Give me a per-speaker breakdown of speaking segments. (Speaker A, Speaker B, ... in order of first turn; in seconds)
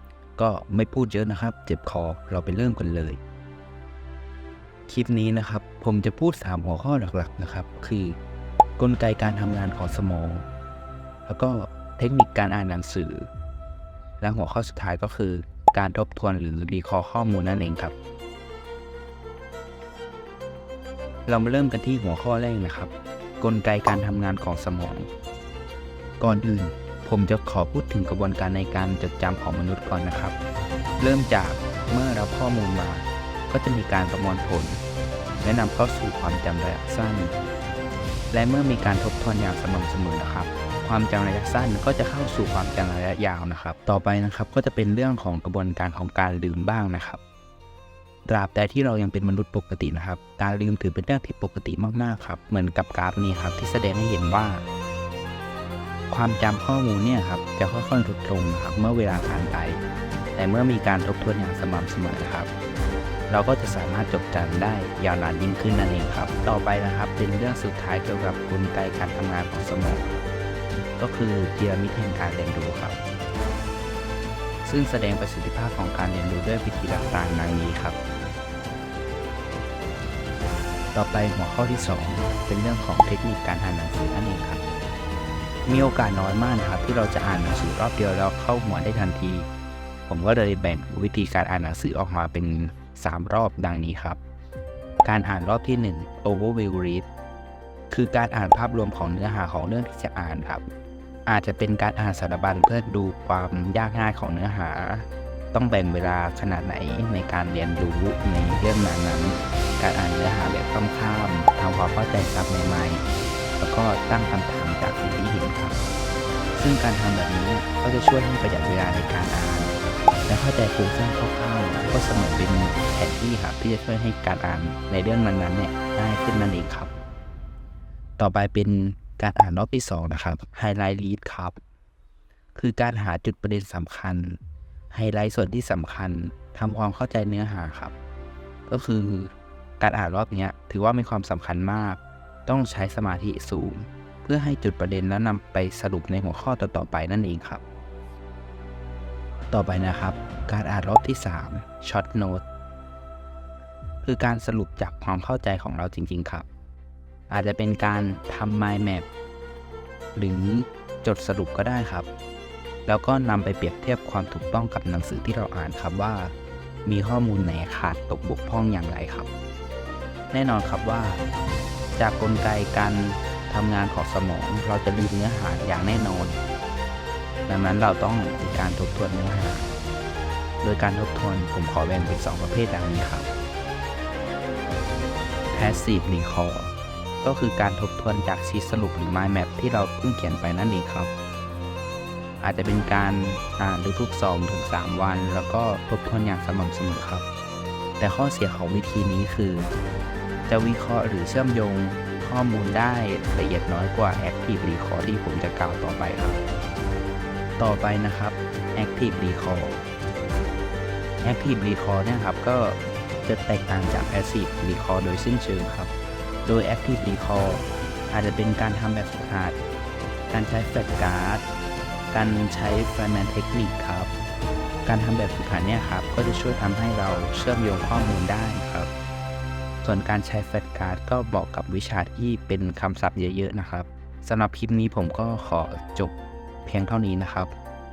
Speaker A: 0.4-3.2, 4.9-8.2, 8.8-10.4, 11.3-13.3, 14.2-17.9, 21.3-25.1, 26.2-30.4, 31.0-34.8, 35.4-37.3, 38.3-47.2, 48.3-54.6, 56.1-59.8, 60.4-62.5, 63.3-70.0, 71.0-73.0, 74.7-78.0, 80.9-84.6, 85.7-89.5, 90.1-94.2, 95.0-97.1, 97.9-100.7, 101.3-113.0, 113.6-115.8, 116.6-119.8, 120.3-126.9, 128.2-131.6, 132.6-134.4, 134.9-137.9, 138.7-147.6, 149.5-152.4, 154.0-156.5, 157.3-159.1, 160.2-162.1, 162.9-166.3, 166.9-169.3, 170.3-171.2, 172.0-176.4, 177.5-179.7, 180.6-183.3, 185.5-191.1, 192.4-197.2, 198.0-199.7, 200.5-206.4, 207.6-209.8, 211.2-215.9, 216.4-219.6, 220.3-221.4, 222.1-224.1, 224.8-228.9, 229.8-236.1, 236.7-237.5